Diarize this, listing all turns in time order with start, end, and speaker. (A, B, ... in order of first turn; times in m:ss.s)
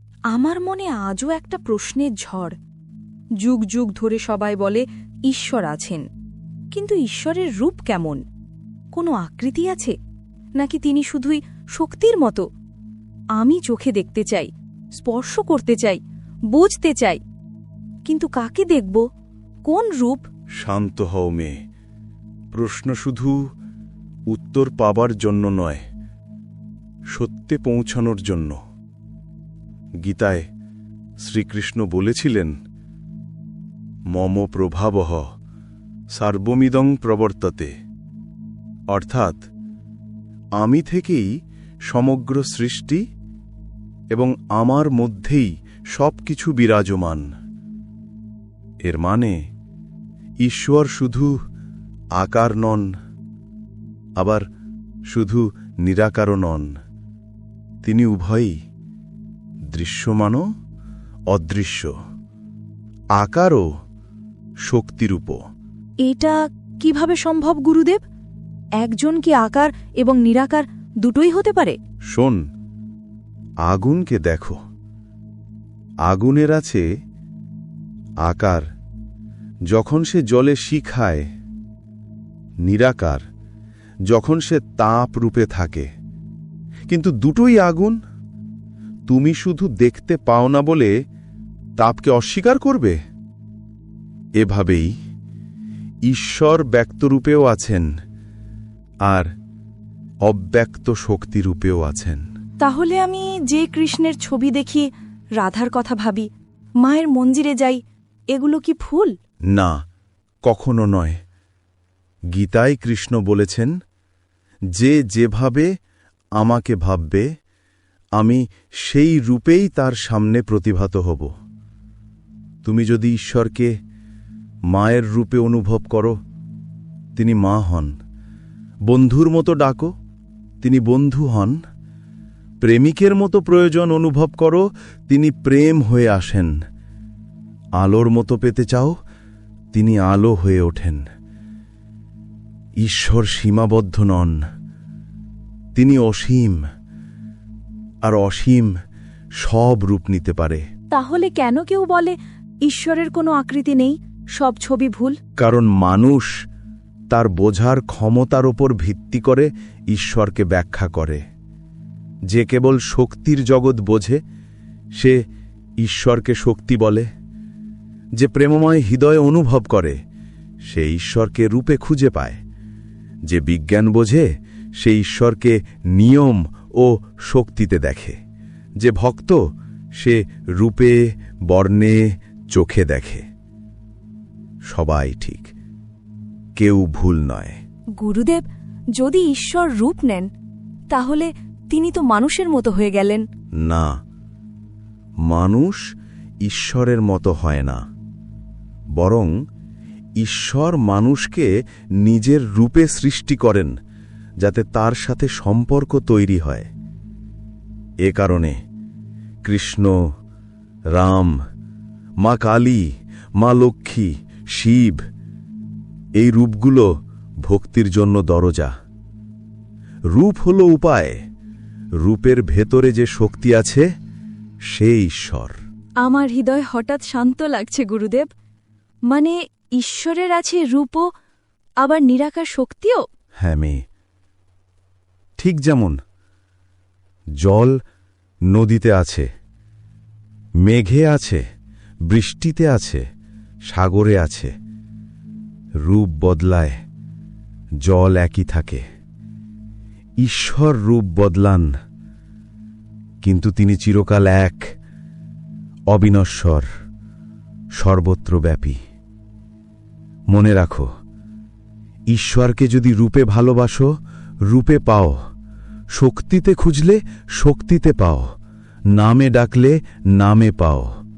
0:00.3-0:02.5 A
0:03.4-0:06.0 A
0:06.7-0:08.2 A
0:08.9-0:09.9 A
0:10.5-0:12.4 A
0:13.4-0:17.2 A
0:18.0-0:19.0 A
0:19.6-0:20.3 A
0:20.6-0:21.6 B
0:22.5-0:23.4 B
0:24.3-0:25.8 B
0:27.1-0:28.6 B
0:30.0-0:30.4 B
0:31.2-0:32.5 B
0:34.1-0:35.2 B
0:36.1-0:37.7 B
0:38.9-0:39.4 B
0:40.6-0:41.3 B
0:41.9-0:43.0 B
0:44.1-0:47.2 B
0:48.8-0:49.4 B
0:50.4-0:51.3 B
0:52.1-0:52.9 B
0:54.2-0:54.4 B
0:55.1-0:56.7 B
0:57.8-0:58.5 B
0:59.7-1:00.4 B
1:01.3-1:01.9 B
1:03.1-1:03.6 B
1:04.6-1:05.4 B
1:06.0-1:08.0 A
1:08.8-1:11.8 A
1:12.1-1:12.4 B
1:13.6-1:14.6 B
1:16.0-1:16.8 B
1:18.2-1:18.6 B
1:19.7-1:21.2 B
1:22.6-1:23.2 B
1:24.1-1:25.9 B
1:26.9-1:28.0 B
1:29.1-1:30.9 B
1:31.8-1:33.0 B
1:34.4-1:34.9 B
1:36.0-1:37.9 B
1:40.2-1:42.2 B
1:42.6-1:46.3 A
1:46.8-1:49.1 A
1:50.4-1:51.2 B
1:52.3-1:53.7 B
1:54.7-1:55.7 B
1:56.4-1:57.3 B
1:58.2-2:01.3 B
2:02.6-2:03.7 B
2:04.7-2:06.2 B
2:07.2-2:07.9 B
2:08.9-2:09.9 B
2:10.6-2:11.6 B
2:12.6-2:16.5 B
2:17.8-2:18.9 B
2:19.7-2:21.0 B
2:22.8-2:24.4 B
2:25.7-2:26.6 B
2:28.0-2:28.7 B
2:29.4-2:30.6 B
2:30.9-2:35.2 A
2:35.4-2:36.4 B
2:37.1-2:41.2 B
2:42.3-2:44.2 B
2:45.8-2:47.1 B
2:48.2-2:50.0 B
2:50.6-2:52.4 B
2:53.2-2:58.2 B
2:58.8-2:59.4 B
3:00.0-3:03.2 B
3:04.7-3:05.5 B
3:06.6-3:07.6 B
3:08.0-3:10.3 A
3:10.9-3:13.2 A
3:13.6-3:13.9 B
3:15.2-3:15.8 B
3:16.4-3:17.8 B
3:19.0-3:19.3 B
3:20.2-3:23.7 B
3:24.4-3:26.7 B
3:28.0-3:28.6 B
3:29.4-3:30.0 B
3:30.9-3:31.4 B
3:32.2-3:32.9 B
3:33.4-3:35.0 B
3:36.2-3:36.9 B
3:37.4-3:38.7 B
3:40.1-3:41.2 B
3:42.0-3:43.9 B
3:44.7-3:45.6 B
3:46.0-3:48.3 A
3:49.1-3:51.1 A
3:51.8-3:53.0 A
3:53.4-3:53.8 B
3:55.4-3:56.0 B
3:57.4-3:57.8 B
3:58.5-3:59.3 B
4:00.6-4:01.4 B
4:02.1-4:03.0 B
4:03.7-4:04.5 B
4:05.8-4:06.8 B
4:07.8-4:08.8 B
4:10.2-4:11.7 B
4:13.2-4:14.6 B
4:15.9-4:16.6 B
4:17.8-4:18.8 B
4:20.3-4:20.9 B
4:22.1-4:23.9 B
4:24.5-4:25.2 B
4:25.9-4:28.2 B
4:28.9-4:30.9 B